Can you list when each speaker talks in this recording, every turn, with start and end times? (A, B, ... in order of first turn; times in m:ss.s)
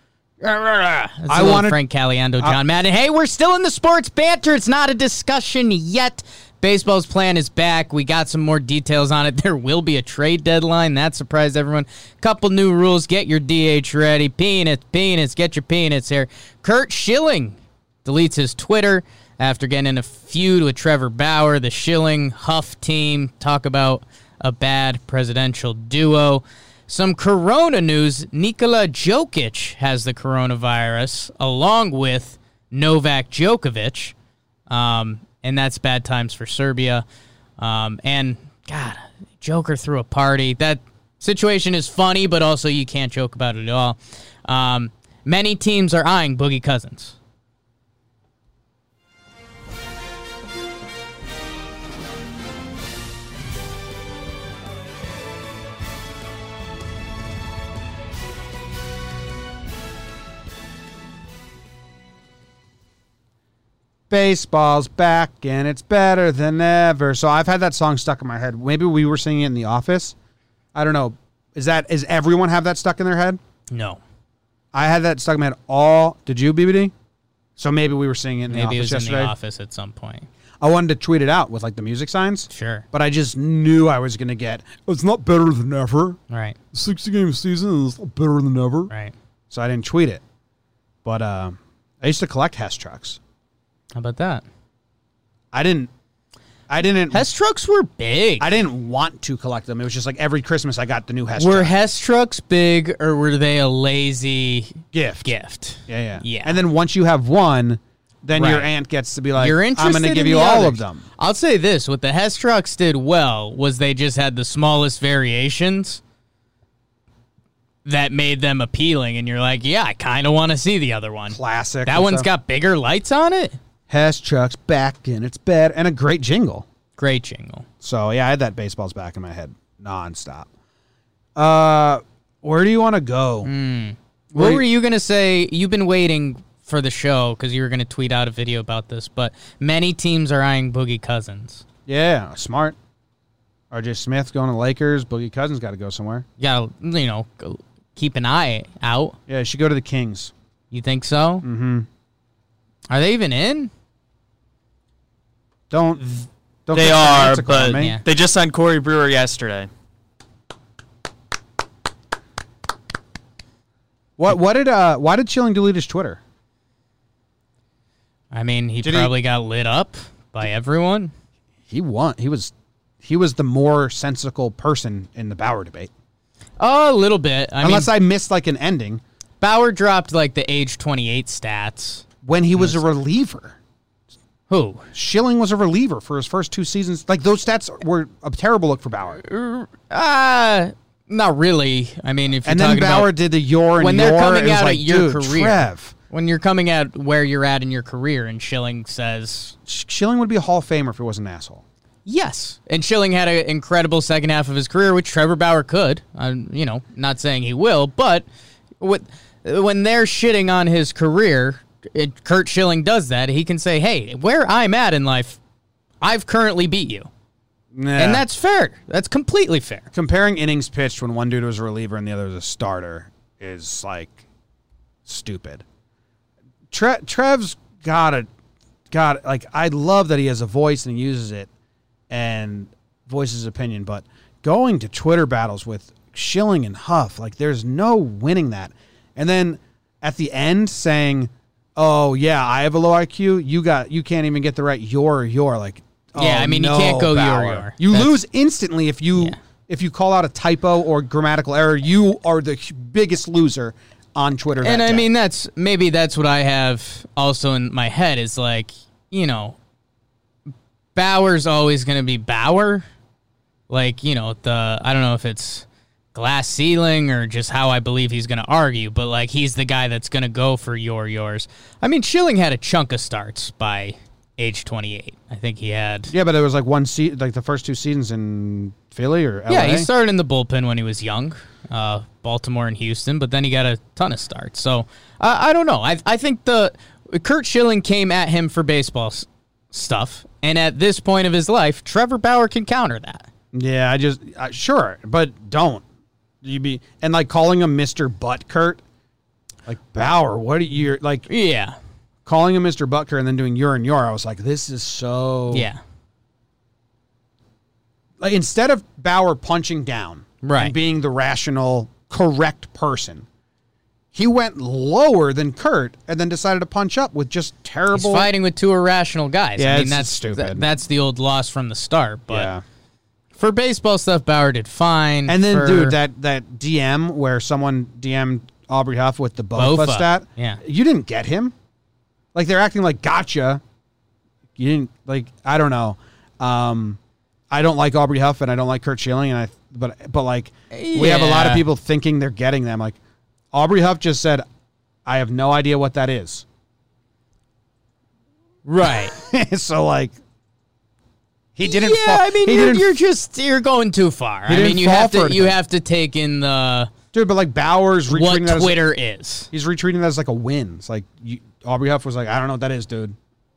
0:00.4-0:34.2 A
0:01.3-0:01.8 B
0:34.7-0:37.0 A
0:37.6-0:47.2 A
1:04.1-1:10.2 B
1:10.7-1:13.4 B
1:13.7-1:14.0 A
1:14.7-1:16.9 B
1:17.6-1:19.3 B
1:18.5-1:20.3 A
1:20.6-1:26.2 B
1:22.5-1:22.8 A
1:26.3-1:26.6 A
1:26.7-1:28.9 B
1:29.5-1:30.2 B
1:31.0-1:33.2 B
1:33.9-1:34.4 A
1:35.5-1:35.9 B
1:36.7-1:37.3 B
1:37.1-1:38.5 A
1:38.4-1:41.8 B
1:41.4-1:46.6 A
1:44.9-1:45.3 B
1:45.9-1:51.0 B
1:48.3-1:48.7 A
1:49.4-1:56.0 A
1:57.8-2:03.6 A
2:01.3-2:02.3 B
2:03.9-2:06.7 B
2:07.0-2:07.7 A
2:07.8-2:10.5 B
2:11.4-2:13.5 B
2:13.4-2:21.6 A
2:14.3-2:14.6 B
2:21.9-2:22.8 B
2:23.7-2:26.3 B
2:26.4-2:29.2 A
2:29.3-2:30.3 B
2:30.7-2:31.4 A
2:31.4-2:31.9 B
2:32.9-2:33.7 A
2:35.7-2:37.9 B
2:36.7-2:39.7 C
2:44.2-2:46.2 B
2:48.3-2:51.1 A
2:48.8-2:49.1 B
2:51.7-2:55.9 B
2:56.6-2:57.9 A
2:57.6-2:59.0 B
2:59.4-3:02.1 A
3:02.2-3:03.6 B
3:04.5-3:04.9 A
3:04.9-3:09.2 B
3:09.2-3:13.1 A
3:12.4-3:16.0 B
3:13.8-3:19.6 A
3:19.7-3:21.6 B
3:22.1-3:28.2 A
3:28.8-3:35.4 A
3:36.0-3:37.1 A
3:37.7-3:38.2 B
3:38.0-3:39.9 A
3:39.9-3:44.2 B
3:45.1-3:45.6 B
3:46.7-3:48.3 B
3:48.9-3:51.5 B
3:52.1-4:15.1 B
4:06.2-4:08.2 A
4:14.6-4:19.6 A
4:21.0-4:22.8 A
4:23.7-4:36.1 A
4:36.1-4:39.9 B
4:39.5-4:53.3 A
4:53.5-4:55.8 B
4:56.4-4:58.8 B
4:59.7-5:01.3 B
5:01.3-5:01.8 A
5:02.2-5:05.7 B
5:05.5-5:05.8 A
5:08.2-5:13.3 B
5:10.4-5:10.8 A
5:14.1-5:18.3 B
5:17.9-5:22.5 A
5:19.6-5:20.7 B
5:22.3-5:22.6 B
5:23.4-5:26.0 A
5:25.3-5:31.5 B
5:29.6-5:30.6 A
5:32.3-5:33.6 B
5:34.6-5:37.0 B
5:37.5-5:43.0 B
5:40.7-5:41.7 A
5:43.5-5:44.4 B
5:45.1-5:46.4 B
5:48.6-5:49.2 A
5:48.8-5:50.2 B
5:51.6-5:53.0 B
5:51.6-5:56.9 A
5:54.5-5:55.6 B
5:57.1-5:58.8 B
5:58.1-5:59.5 A
5:59.5-6:03.2 B